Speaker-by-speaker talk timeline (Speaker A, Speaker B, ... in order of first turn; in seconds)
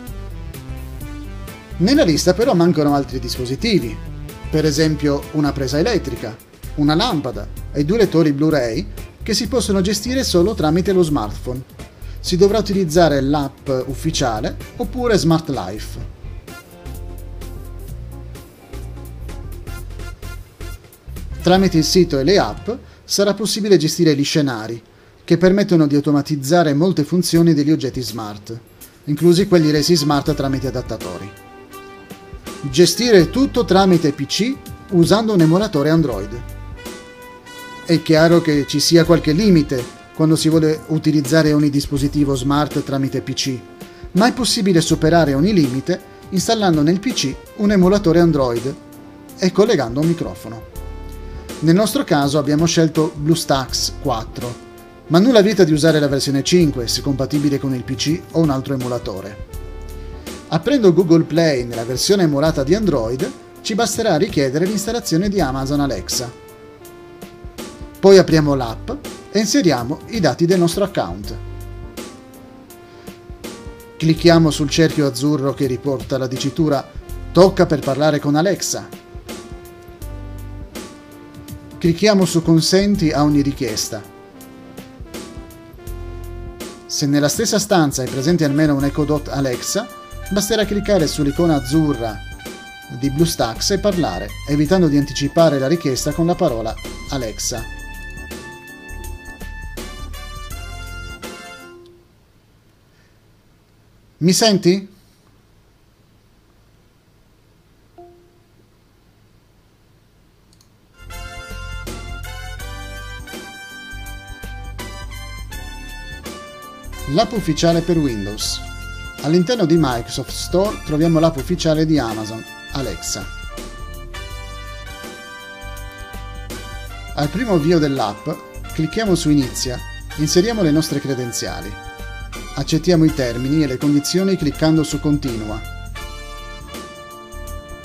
Speaker A: 1.8-11.7, 12.2-16.1, 21.4-31.4, 32.6-36.5, 37.9-48.8, 49.4-50.7, 51.6-59.4, 60.5-66.3, 68.0-71.4, 74.0-78.9, 81.8-84.1, 86.9-92.2, 92.9-97.7, 104.2-104.9, 117.1-118.7, 119.2-123.3, 127.1-131.8, 132.5-135.7